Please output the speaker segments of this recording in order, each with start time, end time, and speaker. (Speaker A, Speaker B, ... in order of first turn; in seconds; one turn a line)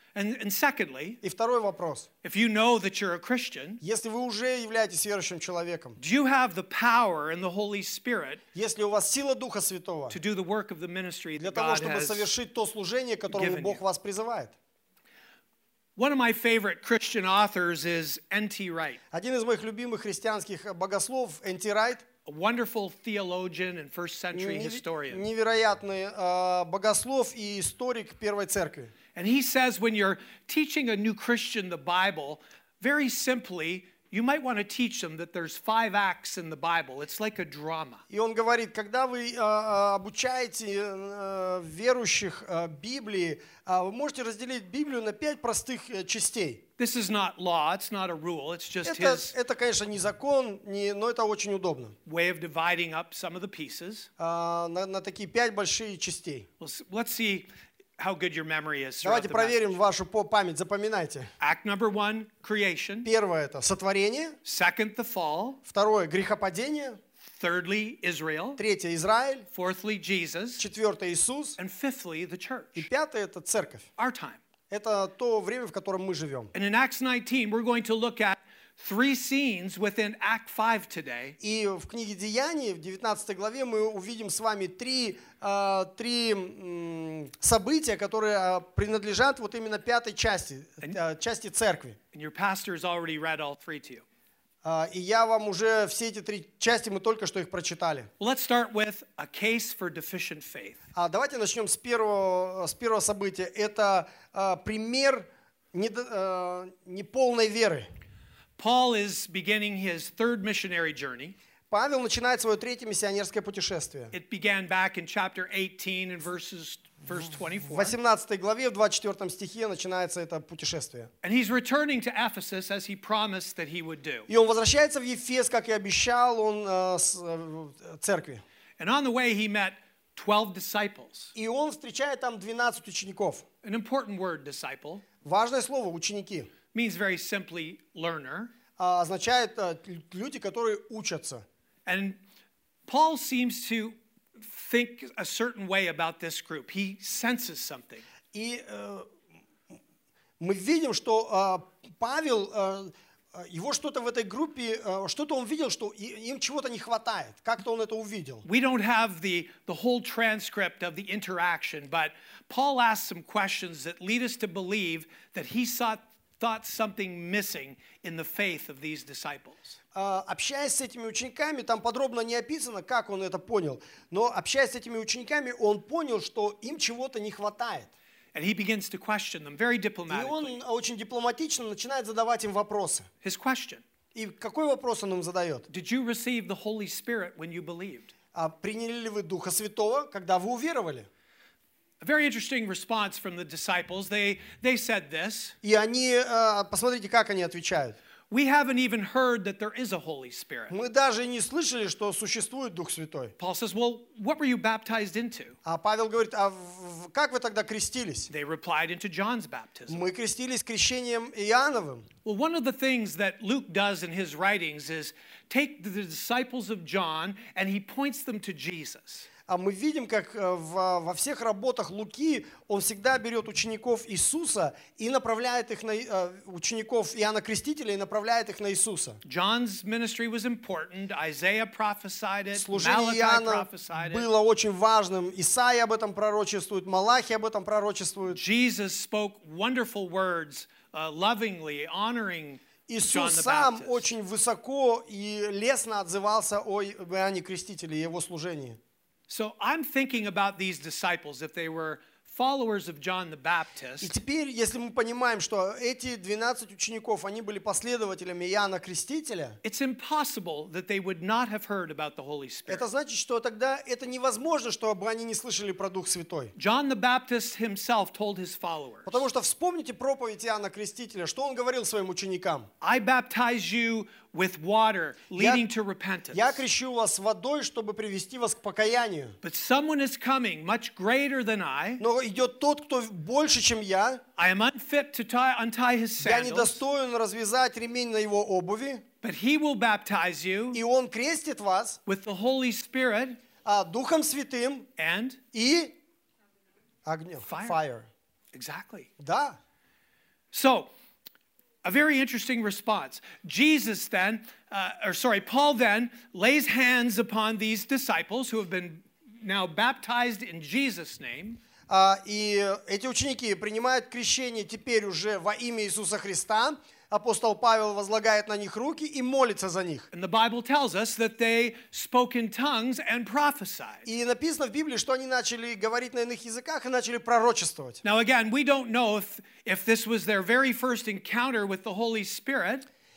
Speaker A: 0.1-1.2
Speaker B: 1.2-2.1
Speaker A: 2.2-3.8
Speaker B: 3.8-6.0
Speaker A: 6.0-8.4
Speaker B: 8.6-10.2
Speaker A: 10.1-12.3
Speaker B: 11.4-14.6
Speaker A: 13.3-13.8
Speaker A: 16.0-19.0
Speaker B: 19.1-22.1
Speaker A: 22.2-25.2
Speaker B: 24.3-28.9
Speaker A: 29.1-38.0
Speaker B: 38.1-46.6
Speaker A: 46.8-49.4
Speaker B: 48.8-52.0
Speaker A: 52.1-54.1
Speaker B: 54.2-56.5
Speaker A: 56.6-57.5
Speaker A: 58.0-59.8
Speaker B: 59.0-61.3
Speaker A: 61.4-63.1
Speaker B: 63.0-64.4
Speaker A: 64.5-65.6
Speaker B: 65.7-67.0
Speaker A: 67.3-68.6
Speaker B: 68.6-69.5
Speaker A: 69.5-70.7
Speaker B: 70.6-71.6
Speaker A: 71.6-72.9
Speaker B: 72.8-73.9
Speaker A: 74.0-74.4
Speaker B: 74.7-76.5
Speaker A: 76.5-81.4
Speaker B: 81.4-92.0
Speaker A: 92.1-94.0
Speaker B: 94.6-98.1
Speaker A: 98.2-100.8
Speaker B: 101.0-107.9
Speaker A: 108.6-111.3
Speaker B: 111.7-114.1
Speaker A: 114.1-118.0
Speaker B: 117.7-121.1
Speaker A: 121.2-124.3
Speaker B: 124.3-128.4
Speaker A: 128.8-131.3
Speaker B: 131.3-133.4
Speaker A: 133.6-135.0
Speaker B: 135.2-136.5
Speaker A: 136.7-138.5
Speaker B: 138.8-141.4
Speaker A: 141.9-142.2
Speaker A: 142.9-148.1
Speaker B: 148.3-149.1
Speaker B: 150.4-158.5
Speaker A: 158.4-169.8
Speaker B: 169.9-177.9
Speaker A: 178.3-180.6
Speaker B: 180.1-183.1
Speaker A: 183.2-183.8
Speaker B: 184.2-185.7
Speaker A: 185.7-188.1
Speaker B: 188.3-191.1
Speaker A: 192.0-195.6
Speaker B: 195.6-198.0
Speaker A: 198.3-200.8
Speaker B: 200.7-203.3
Speaker A: 203.4-205.6
Speaker B: 205.7-208.3
Speaker A: 208.3-210.1
Speaker B: 209.9-212.1
Speaker A: 212.2-219.3
Speaker B: 219.5-229.2
Speaker A: 229.2-234.3
Speaker B: 232.5-238.4
Speaker A: 238.3-244.1
Speaker B: 242.9-248.8
Speaker A: 249.3-254.2
Speaker B: 254.0-259.6
Speaker A: 259.6-262.9
Speaker B: 262.7-266.5
Speaker A: 266.6-269.2
Speaker B: 269.1-272.7
Speaker A: 272.8-276.6
Speaker B: 275.4-275.6
Speaker B: 276.3-279.4
Speaker A: 279.4-282.0
Speaker B: 282.0-284.2
Speaker A: 284.4-286.8
Speaker B: 286.2-289.0
Speaker A: 289.2-290.8
Speaker B: 290.7-292.0
Speaker A: 292.1-293.4
Speaker B: 293.6-294.9
Speaker A: 295.0-295.4
Speaker B: 295.5-295.9
Speaker B: 297.1-298.1
Speaker A: 297.4-297.8
Speaker A: 298.5-299.1
Speaker B: 299.2-299.6
Speaker A: 300.5-300.9
Speaker A: 301.8-311.6
Speaker B: 311.9-320.1
Speaker A: 320.1-324.1
Speaker B: 324.1-328.0
Speaker A: 328.0-332.9